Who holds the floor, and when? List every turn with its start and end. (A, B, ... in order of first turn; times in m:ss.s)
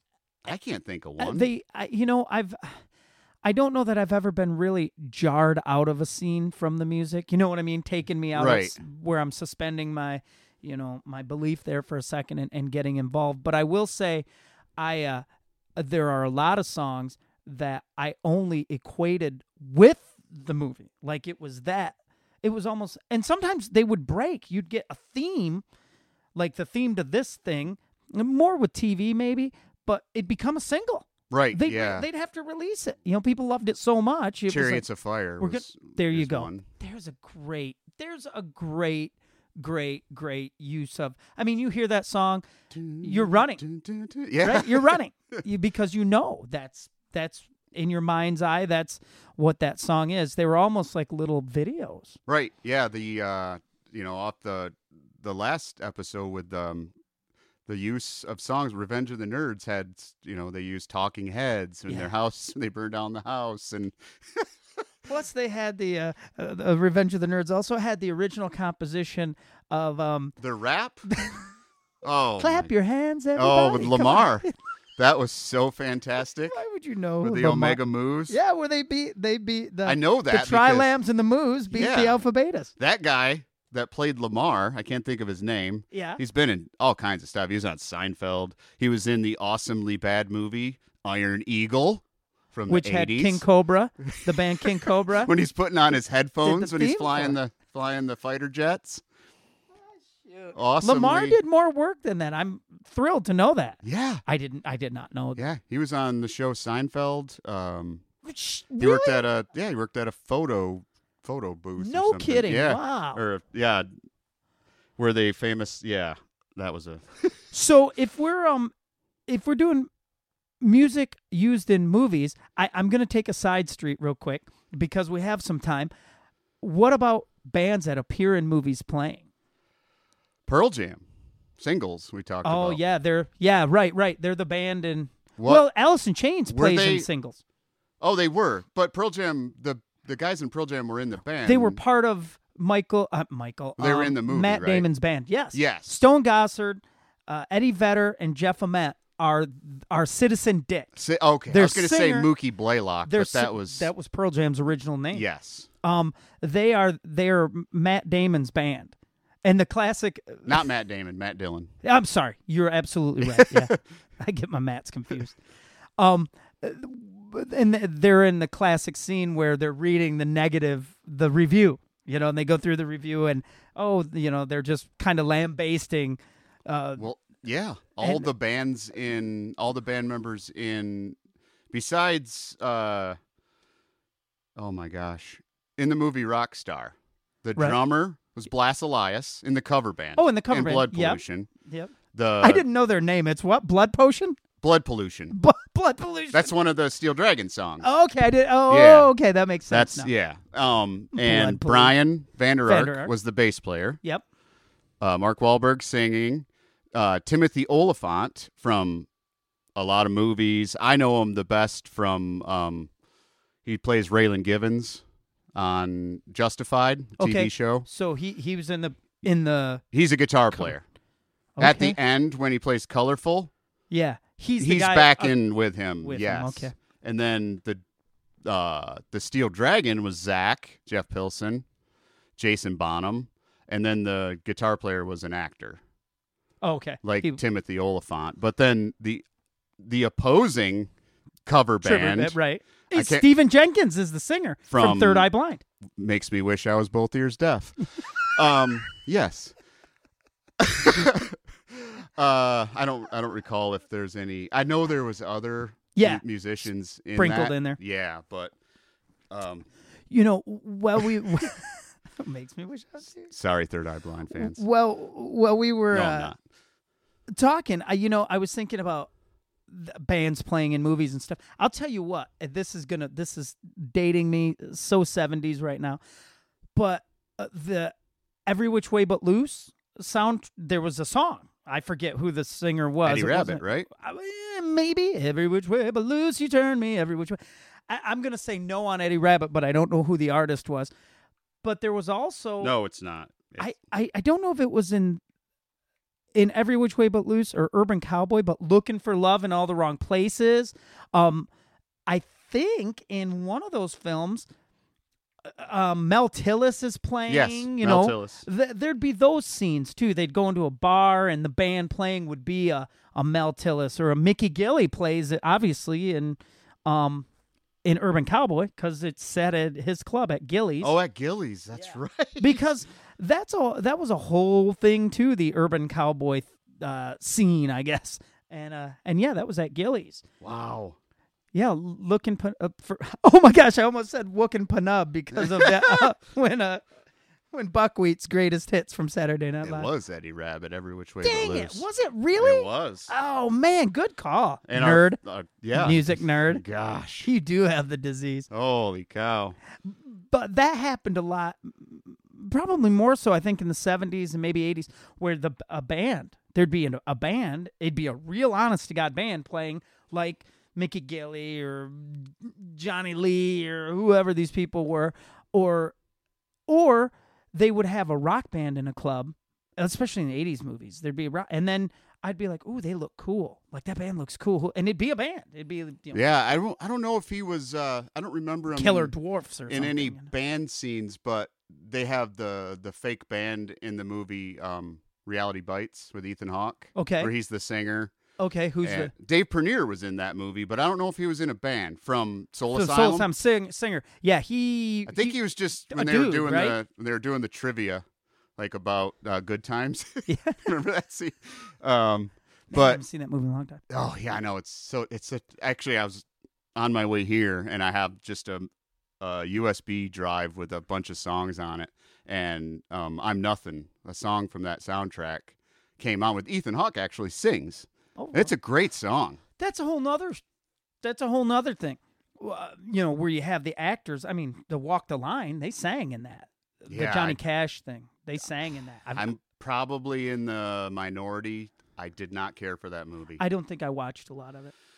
0:00.4-0:01.5 A
0:01.2-0:02.8 B
0:03.4-0:14.2 B
0:08.4-0:08.8 A
0:14.8-0:15.3 B
0:15.8-0:25.6 B
0:26.4-0:34.8 B
0:31.3-0:32.1 A
0:34.5-0:36.6 A
0:35.4-0:42.4 B
0:42.7-0:45.0 A
0:43.0-0:43.6 B
0:44.4-0:52.2 B
0:52.3-0:56.9 A
0:57.7-1:04.5 A
1:05.1-1:10.4 B
1:10.4-1:11.1 A
1:11.1-1:11.4 B
1:12.0-1:12.7 A
1:12.4-1:14.5 B
1:13.4-1:14.5 A
1:15.0-1:16.6 A
1:16.5-1:22.7 B
1:17.2-1:18.4 A
1:19.8-1:20.9 A
1:21.7-1:22.2 A
1:22.8-1:33.4 A
1:25.9-1:26.2 B
1:32.7-1:35.3 B
1:34.0-1:39.0 A
1:36.4-1:37.4 B
1:40.2-1:45.4 B
1:40.5-1:41.4 A
1:43.8-1:44.2 A
1:45.4-1:48.0 A
1:48.2-1:49.2 B
1:48.8-1:53.9 A
1:51.8-1:53.2 B
1:55.0-1:57.4 A
1:57.5-1:58.7 B
1:59.3-1:59.9 B
2:00.6-2:05.9 B
2:06.6-2:09.2 B
2:10.5-2:11.0 A
2:11.6-2:12.8 A
2:12.4-2:17.4 B
2:15.4-2:15.6 A
2:16.5-2:17.1 A
2:18.0-2:21.8 A
2:21.4-2:30.9 B
2:23.8-2:24.9 A
2:25.5-2:25.9 A
2:31.0-2:33.9 A
2:31.5-2:32.3 B
2:33.0-2:35.2 B
2:35.1-2:35.7 A
2:35.8-2:38.9 B
2:39.4-2:40.6 B
2:40.5-2:41.7 A
2:41.8-2:45.4 B
2:43.3-2:43.7 A
2:46.0-2:57.2 B
2:57.0-3:01.2 A
2:58.0-2:58.3 B
3:01.7-3:03.2 A
3:04.6-3:11.5 A
3:10.2-3:14.4 B
3:12.1-3:12.6 A
3:14.6-3:15.4 A
3:15.3-3:16.5 B
3:16.3-3:17.9 A
3:17.8-3:20.1 B
3:18.7-3:19.1 A
3:19.7-3:24.0 A
3:21.1-3:22.0 B
3:22.7-3:23.1 B
3:25.0-3:29.1 A
3:29.8-3:32.9 A
3:33.6-3:35.0 A
3:35.6-3:37.9 A
3:37.2-3:39.8 B
3:39.9-3:40.8 A
3:41.6-3:42.0 B
3:41.6-3:43.5 A
3:43.9-3:45.4 B
3:44.6-3:47.8 A
3:46.0-3:46.7 B
3:48.4-3:51.6 A
3:52.4-3:55.8 A
3:56.6-3:57.4 B
3:57.0-3:59.2 A
3:59.8-4:00.9 A
4:01.5-4:02.4 A
4:01.8-4:05.6 B
4:02.9-4:03.3 A
4:04.7-4:05.3 A
4:06.0-4:09.5 A
4:10.6-4:18.6 A
4:16.0-4:16.2 B
4:17.2-4:17.8 B
4:19.3-4:19.7 A
4:20.1-4:23.3 B
4:23.3-4:24.6 A
4:24.3-4:26.3 B
4:25.9-4:26.4 A
4:27.3-4:29.1 B
4:29.7-4:36.0 B
4:36.8-4:37.9 B
4:38.5-4:47.4 B
4:43.0-4:43.9 A
4:47.9-4:50.9 B
4:51.6-4:52.7 B
4:52.6-4:53.7 A
4:53.6-4:55.2 B
4:56.4-5:01.5 B
5:02.1-5:04.5 B
5:05.5-5:17.3 B
5:07.3-5:08.5 A
5:17.8-5:20.9 B
5:20.8-5:22.7 A
5:21.9-5:30.2 B
5:30.4-5:31.0 A
5:31.5-5:36.8 B
5:35.3-5:36.1 A
5:37.5-5:39.9 B
5:39.6-5:43.1 A
5:41.2-5:45.2 B
5:44.7-5:47.3 A
5:45.7-5:46.6 B
5:47.2-5:48.5 B
5:48.5-5:49.6 A
5:49.8-6:06.0 B
6:06.7-6:16.2 B
6:16.1-6:19.1 A
6:18.7-6:20.3 B
6:19.7-6:28.1 A
6:27.0-6:27.3 B
6:28.4-6:29.1 B
6:28.8-6:33.3 A
6:32.7-6:35.4 B
6:35.1-6:38.0 A
6:35.9-6:36.8 B
6:38.6-6:43.0 A
6:40.3-6:40.6 B
6:42.7-6:43.8 B
6:43.9-6:46.2 A
6:46.8-6:48.7 A
6:49.2-6:59.4 A
6:58.2-6:58.5 B
6:59.6-7:00.4 B
7:01.0-7:09.3 B
7:06.9-7:07.4 A
7:09.2-7:13.4 A
7:13.4-7:14.7 B